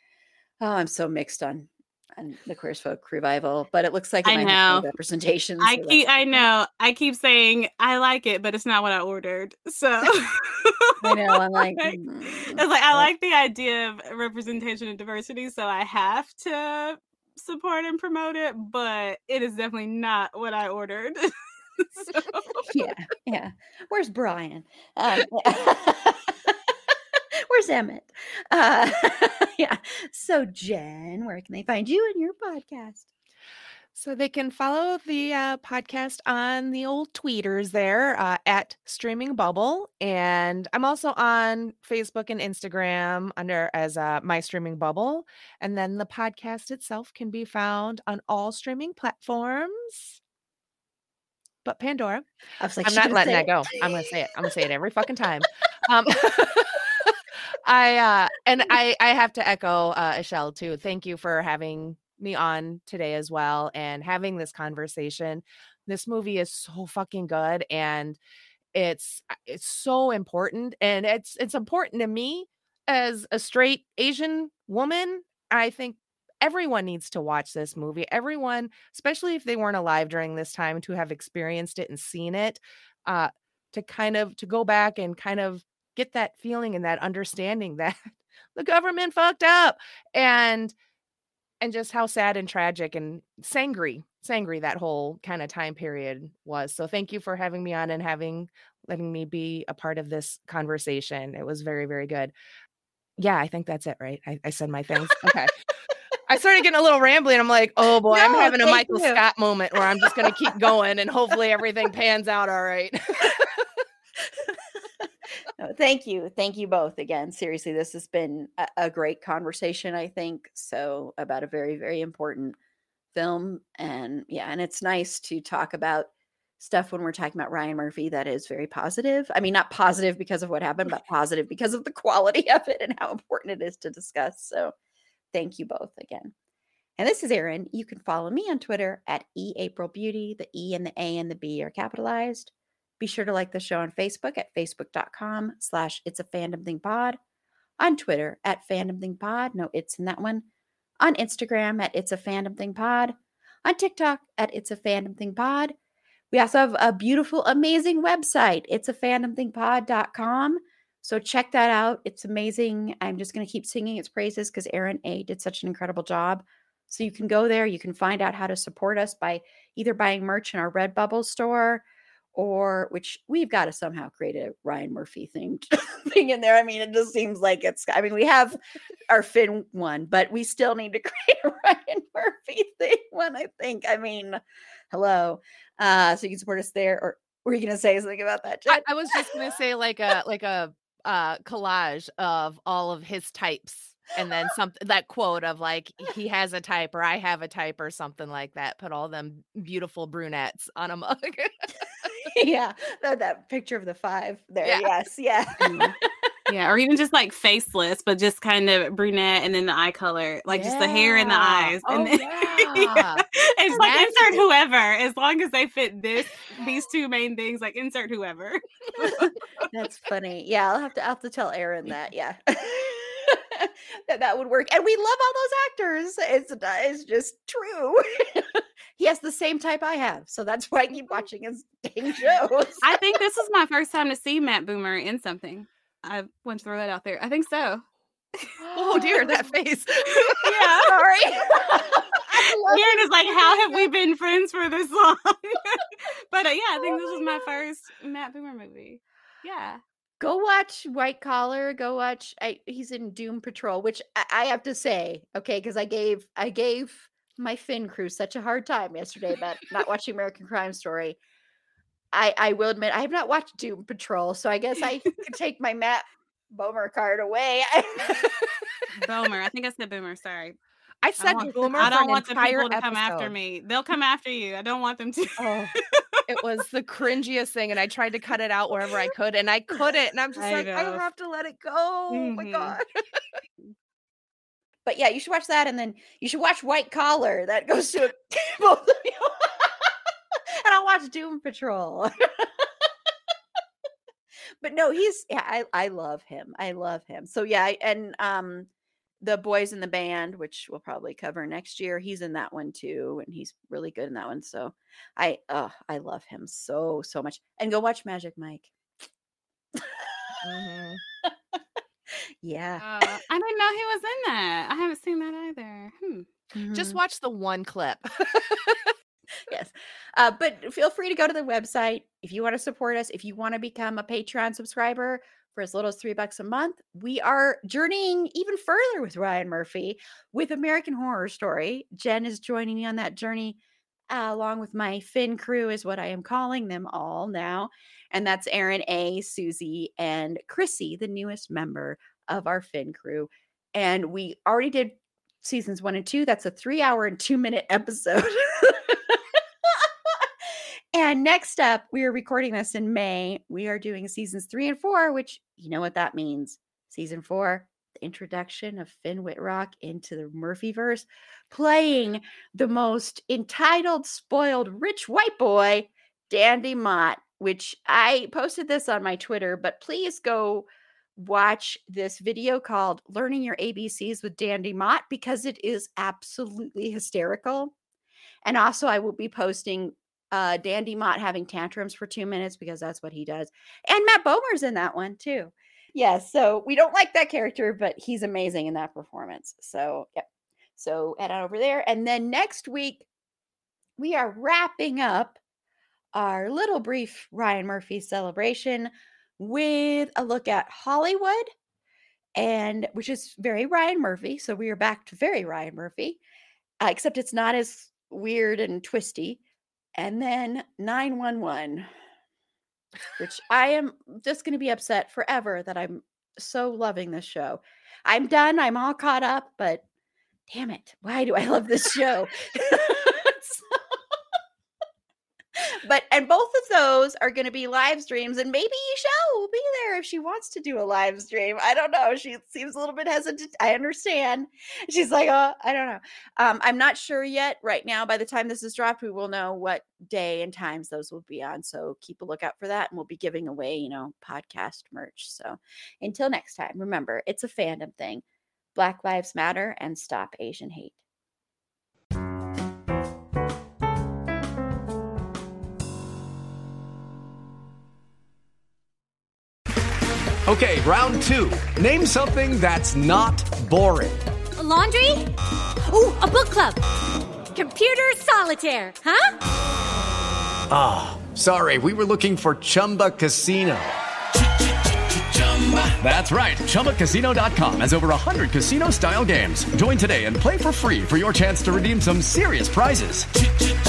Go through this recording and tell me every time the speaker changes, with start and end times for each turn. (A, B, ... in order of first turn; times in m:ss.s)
0:00.6-0:06.4 A
0:04.2-0:04.9 B
0:05.6-0:22.7 B
0:11.0-0:13.1 A
0:22.7-0:26.6 A
0:27.5-0:33.1 A
0:33.9-0:50.2 C
0:51.6-0:52.3 C
0:52.6-0:54.1 A
0:52.8-1:08.2 C
1:08.7-1:30.7 C
1:31.6-1:42.3 C
1:43.2-1:45.5 C
1:46.3-1:53.6 C
1:48.1-1:49.2 A
1:49.9-1:50.5 A
1:55.6-2:02.6 A
2:03.1-2:06.1 A
2:06.6-2:14.7 A
2:15.3-2:16.3 A
2:17.0-2:27.2 A
2:27.8-2:30.4 A
2:31.0-2:35.7 A
2:36.3-2:58.6 A
2:59.1-3:09.4 A
3:08.7-3:22.1 C
3:22.3-3:26.0 A
3:24.6-3:24.9 C
3:25.6-3:25.9 B
3:26.5-3:39.3 B
3:30.5-3:33.1 A
3:31.6-3:33.2 C
3:33.7-3:34.4 A
3:33.8-3:34.1 C
3:39.0-3:53.0 A
3:52.8-3:57.8 B
3:58.6-3:59.4 A
3:58.7-4:00.5 C
4:00.2-4:00.9 B
4:00.4-4:03.9 A
4:02.3-4:09.8 B
4:06.8-4:07.4 A
4:10.2-4:21.2 A
4:22.1-4:28.6 A
4:28.9-4:30.6 B
4:31.0-4:33.4 C
4:31.2-4:36.0 B
4:31.5-4:31.9 A
4:35.4-4:43.2 C
4:40.4-4:41.0 B
4:42.1-4:42.8 B
4:44.9-4:49.9 A
4:50.6-4:52.7 A
4:54.6-4:58.7 A
4:59.2-5:08.7 A
5:09.7-5:10.4 A
5:10.4-5:11.0 C
5:11.2-5:11.6 A
5:12.4-5:13.2 A
5:12.8-5:16.3 B
5:16.5-5:17.0 A
5:16.7-5:18.9 C
5:19.5-5:33.6 A
5:34.1-5:50.3 A
5:50.9-6:17.7 A
6:18.4-6:30.2 A
6:30.8-6:33.1 A
6:34.0-6:35.4 A
6:36.1-6:41.5 A
6:42.4-6:46.2 A
6:46.8-6:49.4 A
6:50.0-6:51.9 A
6:53.2-6:59.8 A
7:00.5-7:03.6 A
7:05.6-7:28.2 A
7:28.7-7:31.0 A
7:40.4-7:44.2 D
7:44.6-7:45.2 E
7:45.9-7:46.8 E
7:47.5-7:49.3 E
7:50.7-7:54.0 D
7:55.3-8:03.3 D